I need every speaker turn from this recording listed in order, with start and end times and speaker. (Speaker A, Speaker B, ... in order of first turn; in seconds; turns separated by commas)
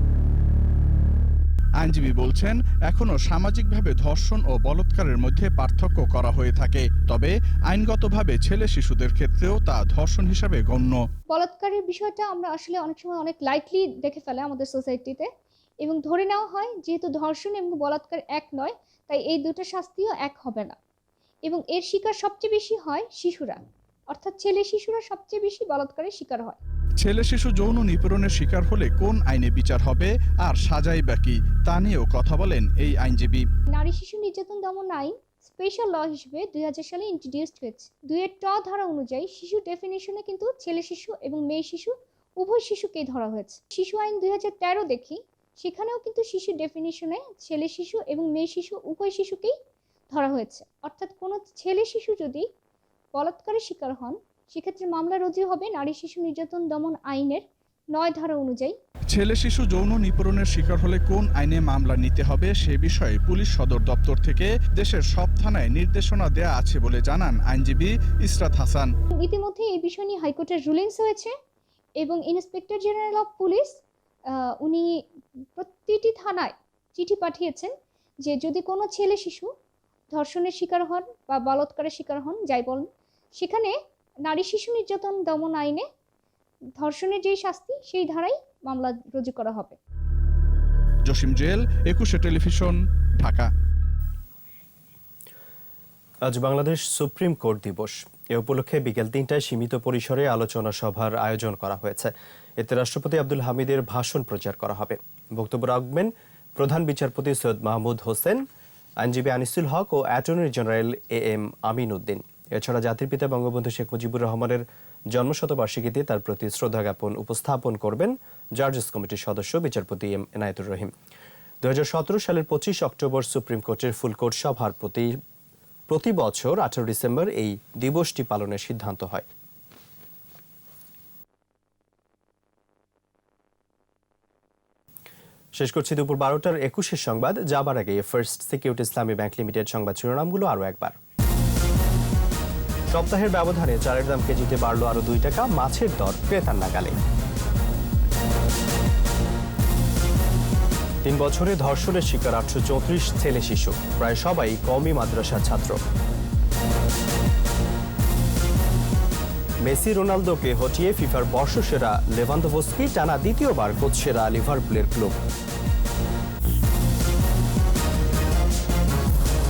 Speaker A: 1.8-11.0, Speaker B: 11.3-15.3, Speaker B: 15.8-20.8, Speaker B: 21.4-26.6, Speaker A: 27.0-33.5, Speaker B: 33.7-49.6, Speaker B: 50.1-52.5, Speaker B: 53.1-58.8, Speaker A: 59.1-68.9, Speaker B: 69.1-71.3, Speaker B: 72.0-73.7, Speaker B: 74.3-75.0, Speaker B: 75.5-79.5, Speaker B: 80.1-85.8, Speaker B: 86.8-89.8, Speaker A: 91.1-93.5, Speaker C: 96.2-108.4, Speaker C: 109.0-120.9, Speaker C: 121.6-125.1, Speaker C: 125.9-129.3, Speaker C: 135.6-140.9, Speaker C: 142.9-146.9, Speaker C: 151.0-155.8, Speaker C: 159.6-165.2